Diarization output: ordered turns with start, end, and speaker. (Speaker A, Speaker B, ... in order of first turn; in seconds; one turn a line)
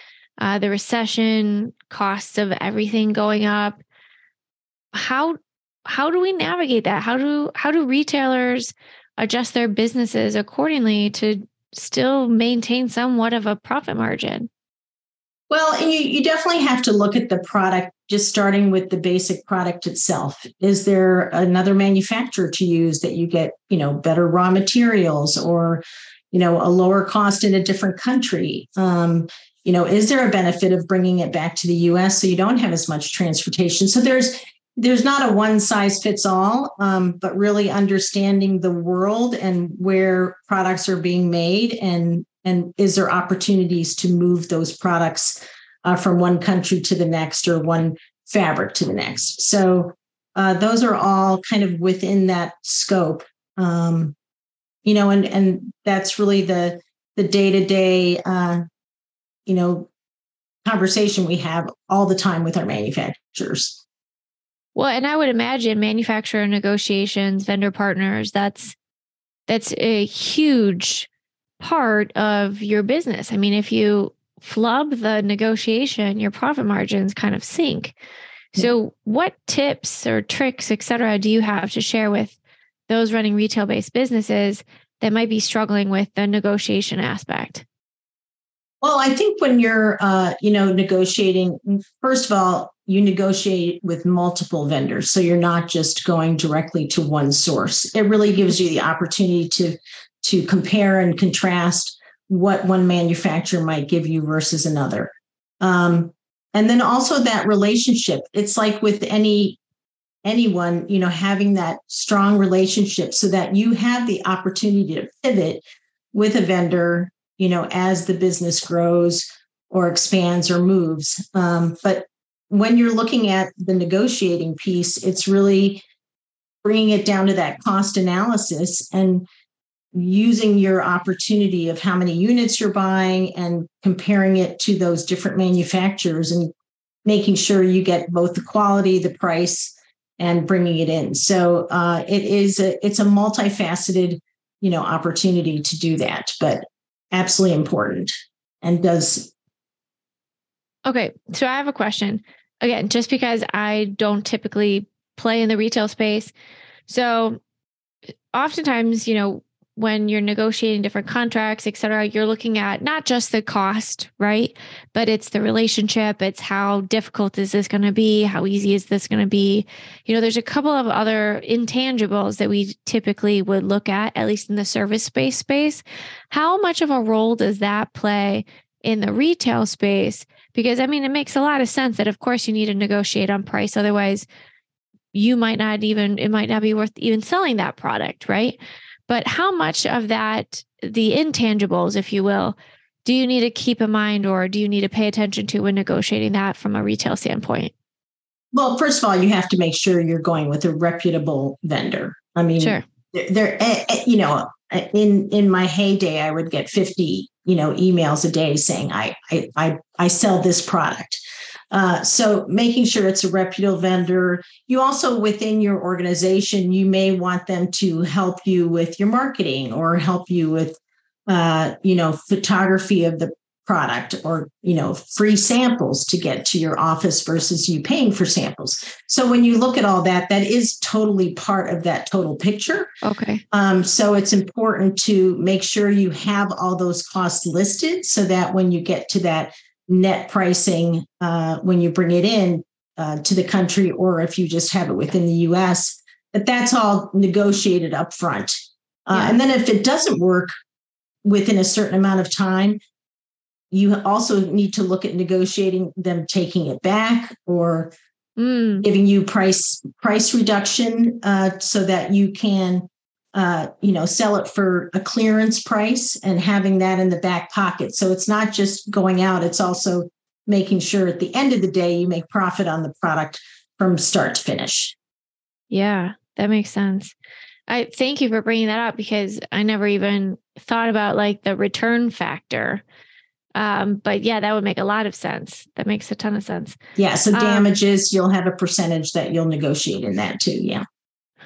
Speaker A: 0.4-3.8
Speaker A: 4.9-14.5
Speaker B: 15.5-54.1
Speaker B: 54.9-58.6
Speaker B: 59.5-59.9
Speaker B: 60.6-63.8
Speaker A: 64.8-68.8
Speaker A: 69.5-71.1
Speaker A: 71.6-78.0
Speaker A: 78.6-82.4
Speaker A: 82.9-87.7
Speaker B: 88.8-105.1
Speaker B: 105.6-109.6
Speaker B: 110.2-125.8
Speaker B: 126.6-129.3
Speaker B: 129.9-136.5
Speaker B: 137.1-149.3
Speaker A: 150.9-156.3
Speaker A: 156.9-157.4
Speaker A: 158.3-184.3
Speaker A: 185.1-188.6
Speaker A: 189.1-197.7
Speaker B: 198.5-211.2
Speaker B: 211.7-232.9
Speaker A: 233.0-233.4
Speaker B: 233.5-250.5
Speaker A: 249.1-249.4
Speaker B: 251.2-252.8
Speaker B: 253.7-257.9
Speaker A: 258.4-258.9
Speaker B: 258.8-275.0
Speaker A: 275.7-277.1
Speaker A: 277.7-282.8
Speaker A: 283.6-286.8
Speaker B: 287.0-290.8
Speaker A: 287.3-287.7